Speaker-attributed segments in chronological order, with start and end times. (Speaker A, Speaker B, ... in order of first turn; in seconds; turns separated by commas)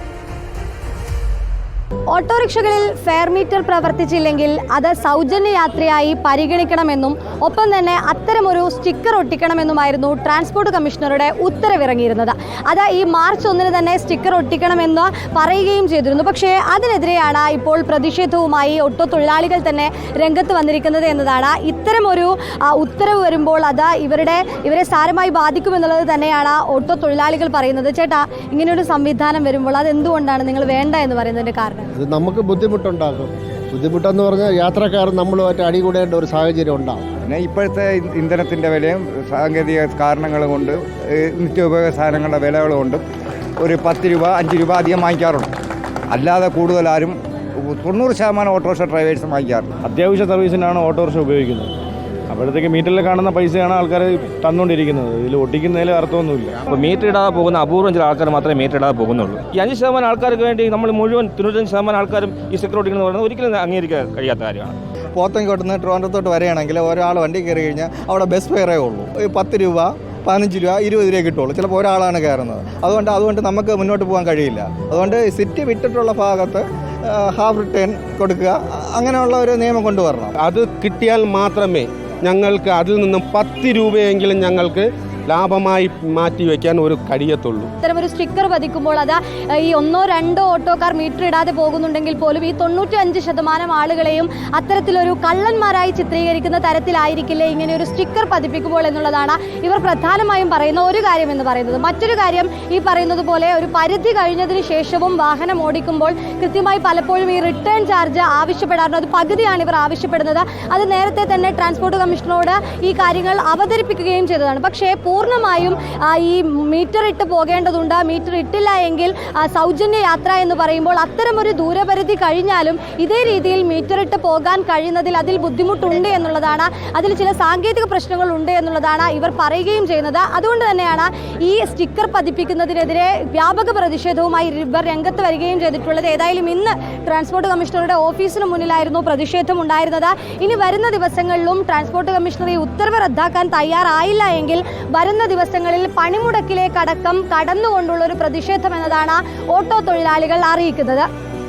Speaker A: 2.1-31.9, Speaker B: 32.0-37.1, Speaker C: 37.2-43.0, Speaker C: 43.6-45.5, Speaker C: 46.1-49.7, Speaker D: 49.8-51.7, Speaker D: 52.3-56.6, Speaker E: 56.7-64.8, Speaker F: 65.2-80.3, Speaker G: 80.4-87.7, Speaker A: 87.8-151.1